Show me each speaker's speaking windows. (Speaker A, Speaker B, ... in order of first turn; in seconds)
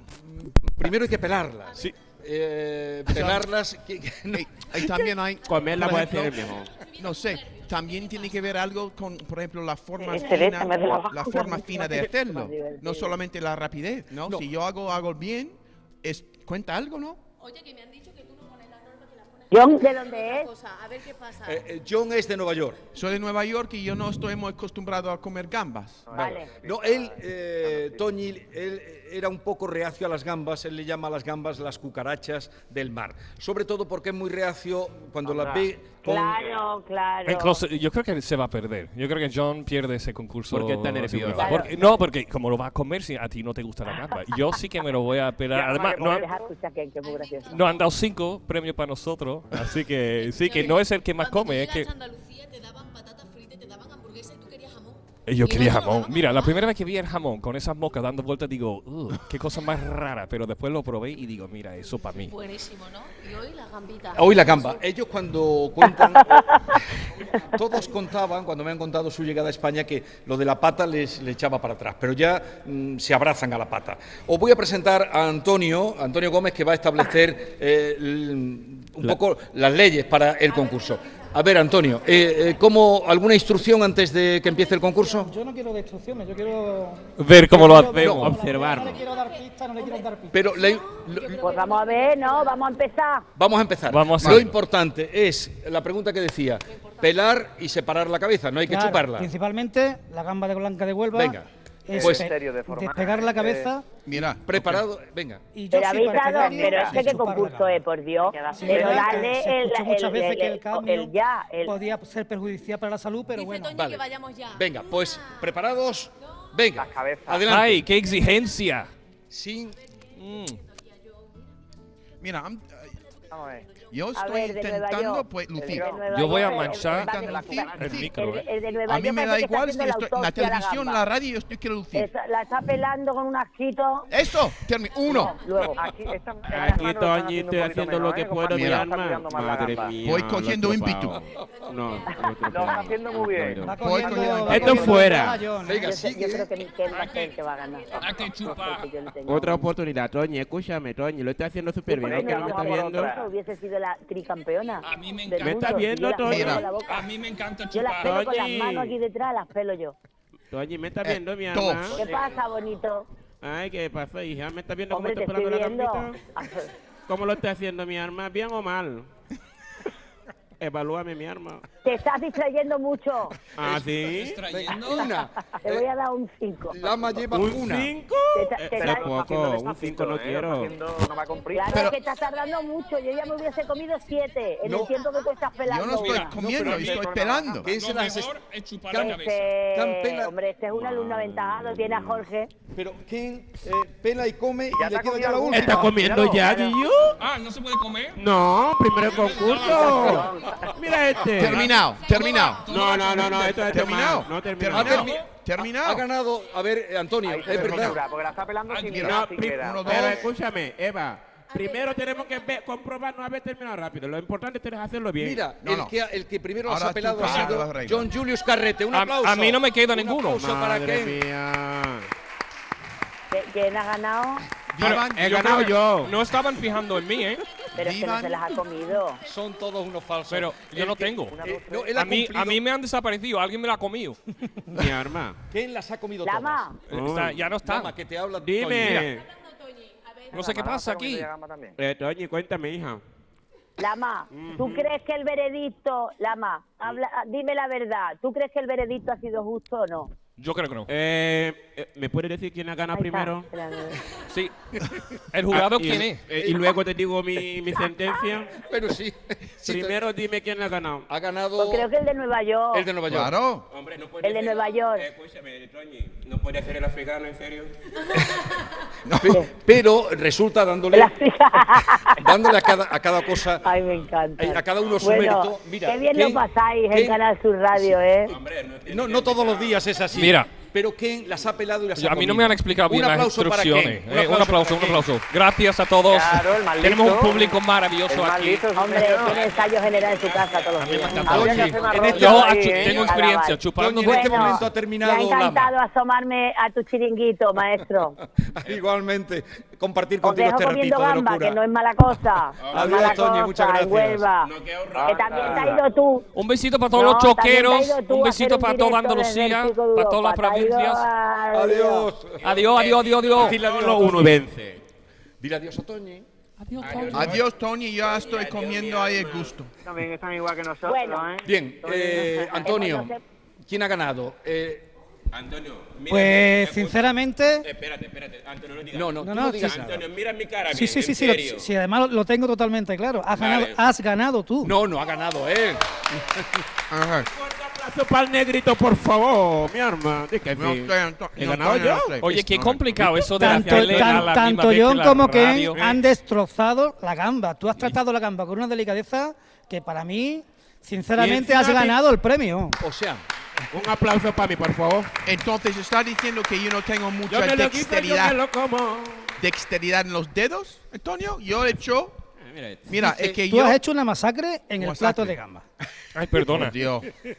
Speaker A: 0.3-5.1, 21.4-22.8, 26.1-36.4, 64.2-66.8, 67.5-85.3, 88.0-88.3, 90.3-91.5, 93.4-99.3, 101.1-102.3, 104.4-105.4, 113.8-117.9, 119.3-119.8, 145.6-146.5, 173.6-175.9, 176.7-177.9, 184.6-185.1, 187.6-190.3, 192.7-196.0, 199.8-200.1, 204.7-208.0, 215.2-221.2, 229.3-232.6, 235.5-236.7, 237.6-239.1, 258.6-260.0, 261.1-261.9, 262.7-263.4, 269.2-271.1, 272.2-273.7, 274.4-278.0, 278.9-285.1, 291.3-293.1, 293.7-295.7, 298.5-301.6, 302.6-304.2, 311.5-312.6, 313.3-314.4, 315.4-316.3, 321.4-323.1, 323.7-324.9, 328.9-330.1, 334.6-336.6, 352.8-353.2
Speaker B: 1.7-1.9, 5.5-6.1, 6.8-8.6, 17.4-21.7, 47.0-48.1, 50.0-56.7, 62.2-64.8, 88.9-92.7, 96.8-97.1, 113.3-115.5, 118.1-118.5, 119.9-121.5, 134.9-136.1, 141.3-143.3, 146.6-148.9, 181.3-185.9, 202.2-202.9, 211.5-212.6, 239.0-240.8
Speaker C: 3.1-3.5, 4.3-17.2, 22.9-26.1, 94.2-94.5, 104.1-104.8, 122.2-123.0, 123.9-126.0, 126.8-128.1, 128.9-132.1, 134.1-135.4, 138.5-138.9, 140.0-141.2, 143.7-144.9, 156.2-156.7, 161.1-162.1, 181.7-182.0, 185.6-187.7, 201.3-206.1, 207.4-208.0, 208.8-210.3, 215.6-215.9, 216.6-218.2, 224.7-226.0, 227.8-228.6, 263.1-263.7, 269.1-269.4, 317.1-319.7, 336.9-337.3, 340.6-343.3, 355.2-358.4, 359.4-362.2, 362.9-363.8, 364.8-365.4, 366.4-367.1
Speaker D: 5.5-6.7, 40.5-41.7, 88.1-89.0, 136.5-145.4, 149.3-153.1, 155.4-156.7, 157.9-159.0, 160.5-162.1, 163.4-166.2, 167.1-169.1, 170.6-171.7, 173.6-174.5, 177.3-180.8, 190.7-192.2, 195.5-197.2, 198.1-201.8, 202.6-205.1, 208.9-215.4, 220.3-222.1, 224.9-226.1, 234.7-235.4, 236.9-237.5, 238.4-239.3, 241.8-243.0, 244.3-244.9, 250.9-253.5, 255.5-258.6, 259.6-261.1, 263.7-267.7, 273.7-274.1, 278.3-279.9, 289.1-293.1, 302.6-303.1, 304.4-305.8, 312.4-314.8, 316.8-317.4, 318.0-319.6, 325.3-327.0, 327.6-331.7, 333.3-333.8, 337.3-342.2, 343.2-344.4, 351.2-351.9, 353.7-355.1, 357.3-359.3, 362.4-363.2
Speaker E: 10.1-13.1, 19.5-20.5, 26.1-26.5, 36.0-37.6, 41.4-41.9, 46.0-47.5, 91.4-93.3, 105.7-111.7, 124.2-131.0, 131.9-134.1, 135.0-135.9, 145.8-149.7, 151.9-159.9, 162.0-163.1, 164.9-166.7, 171.8-173.4, 174.7-176.8, 178.3-179.2, 181.5-186.4, 188.9-192.5, 223.3-224.5, 227.8-229.2, 236.2-236.8, 243.8-250.1, 252.9-254.0, 261.6-262.9, 264.2-265.1, 270.9-272.3, 273.6-278.4, 288.8-291.5, 293.1-298.2, 300.2-304.5, 305.1-306.3, 306.9-312.1, 320.9-321.3, 322.6-323.2
Speaker F: 26.1-28.0, 35.2-35.7, 45.5-46.5, 102.0-103.7, 116.8-117.5, 123.3-123.7, 125.6-126.1, 126.7-128.0, 135.7-140.0, 142.5-143.7, 151.9-153.3, 162.0-162.3, 178.8-181.8, 186.4-187.7, 194.8-196.8, 199.6-200.8, 207.3-210.2, 231.3-232.0, 240.5-241.8, 286.1-287.6, 288.1-289.4, 291.3-293.0, 305.0-305.8, 319.9-322.7
Speaker G: 37.3-46.3, 47.5-51.9, 55.3-62.4, 87.2-88.4, 93.9-94.6, 117.5-118.9, 120.2-120.6, 126.1-128.5, 218.9-220.5, 224.8-227.4, 230.3-231.4, 231.9-234.2, 236.9-237.9, 240.3-241.3, 250.4-250.9, 255.3-256.3, 280.1-280.6, 282.0-288.7, 290.8-294.7, 306.3-311.1, 312.4-313.6, 316.6-317.4, 342.2-346.0, 366.1-366.8
Speaker H: 85.1-90.5, 98.7-103.9, 105.5-107.8, 108.4-111.1, 111.7-113.8, 143.6-145.9, 326.1-327.7, 329.2-329.8, 330.7-334.7, 343.3-352.8, 363.3-365.6